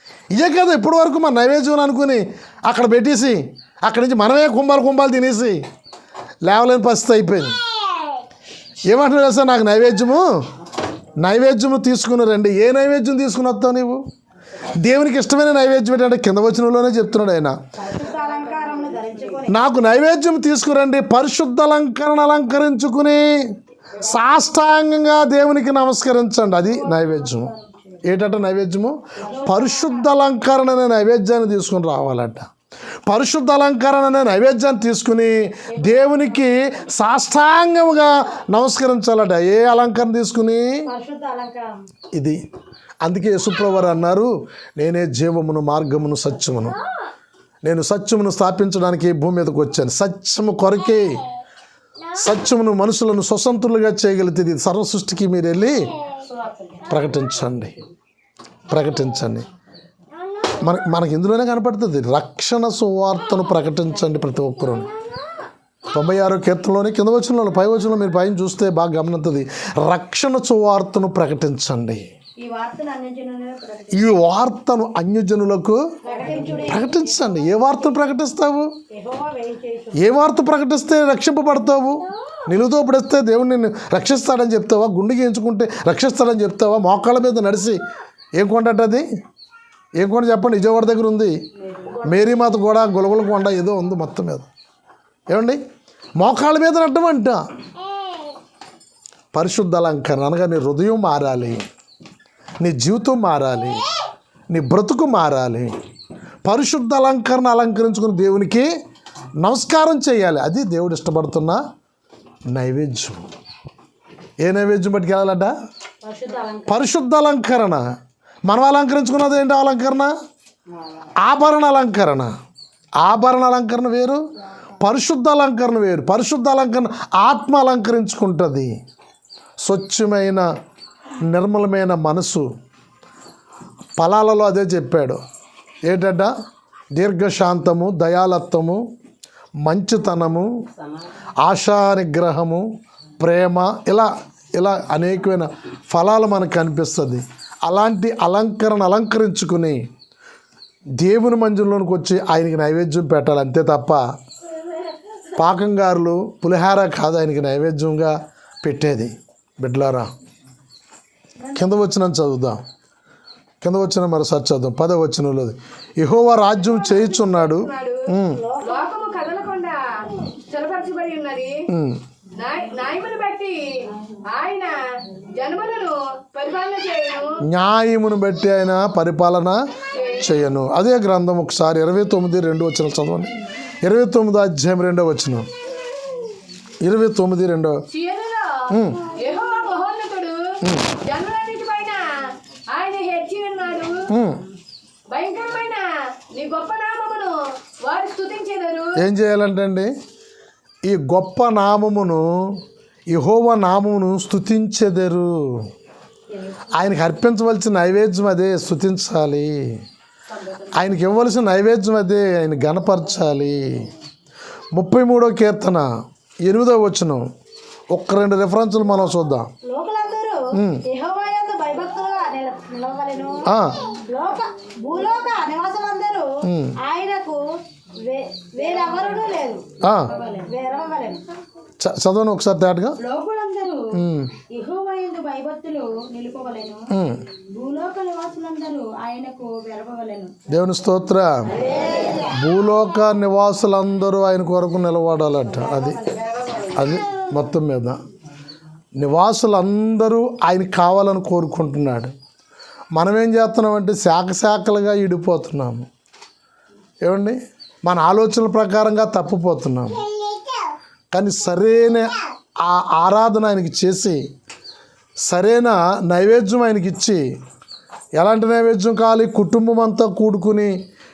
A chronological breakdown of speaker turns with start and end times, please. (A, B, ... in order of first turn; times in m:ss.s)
0:00.3-0:05.6 A
0:06.4-0:07.6 A
0:08.9-0:10.3 A
0:11.2-0:14.0 A
0:14.7-0:17.6 A
0:17.8-0:19.6 B
0:19.5-0:27.5 A
0:26.7-0:28.0 B
0:28.0-0:32.5 A
0:29.2-0:29.9 B
0:33.0-0:40.8 A
0:40.9-0:41.8 B
0:43.0-0:46.8 A
0:47.6-0:51.2 A
0:52.1-0:55.9 A
0:56.2-0:56.9 B
0:56.9-0:57.8 A
0:58.7-0:59.5 A
1:00.6-1:04.9 A
1:05.9-1:12.0 A
1:12.4-1:14.1 B
1:13.9-1:15.8 A
1:16.0-1:17.5 B
1:16.6-1:18.7 A
1:18.9-1:20.0 B
1:20.0-1:27.8 A
1:28.4-1:29.0 A
1:30.0-1:31.4 A
1:32.0-1:34.5 A
1:35.3-1:35.6 A
1:36.2-1:37.4 A
1:39.3-1:41.6 A
1:42.6-1:43.9 A
1:44.5-1:45.7 A
1:46.4-1:48.7 A
1:49.4-1:51.6 A
1:52.5-1:53.2 A
1:54.4-1:55.5 A
1:56.0-1:56.8 B
1:56.7-1:57.8 A
1:58.4-2:00.1 A
2:01.2-2:02.3 A
2:03.0-2:04.2 A
2:04.8-2:08.7 A
2:09.6-2:10.5 A
2:11.2-2:12.5 A
2:14.0-2:15.2 A
2:15.8-2:16.3 A
2:16.9-2:18.8 A
2:19.6-2:20.5 A
2:21.4-2:22.6 A
2:23.2-2:29.8 A
2:31.0-2:34.0 A
2:35.3-2:40.1 A
2:41.5-2:42.6 A
2:43.6-2:48.4 A
2:46.6-2:48.1 C
2:48.3-2:48.9 B
2:48.6-2:51.7 C
2:51.7-2:52.0 A
2:52.3-2:57.4 C
2:57.4-2:59.6 A
2:59.9-3:00.3 C
3:00.2-3:05.5 A
3:06.8-3:07.8 A
3:07.9-3:14.1 C
3:08.7-3:09.1 A
3:10.6-3:10.9 A
3:14.1-3:14.4 A
3:15.1-3:19.0 C
3:19.0-3:19.9 A
3:20.8-3:25.7 A
3:26.7-3:29.8 A
3:30.8-3:33.9 A
3:34.7-3:35.9 A
3:36.4-3:37.2 A
3:37.9-3:39.5 A
3:39.6-3:51.2 B
3:40.5-3:40.8 A
3:43.5-3:43.8 A
3:46.4-3:46.8 A
3:49.8-3:50.1 A
3:51.8-3:53.0 A
3:53.0-3:53.9 B
3:53.9-3:54.3 A
3:54.5-3:56.9 B
3:56.9-3:57.2 A
3:57.5-4:00.4 B
4:00.5-4:01.4 A
4:01.6-4:02.2 B
4:02.4-4:06.0 A
4:05.5-4:06.7 B
4:06.7-4:08.0 A
4:08.9-4:12.1 A
4:12.9-4:15.9 A
4:17.0-4:20.0 A
4:21.1-4:24.2 A
4:25.2-4:27.2 A
4:28.1-4:30.7 A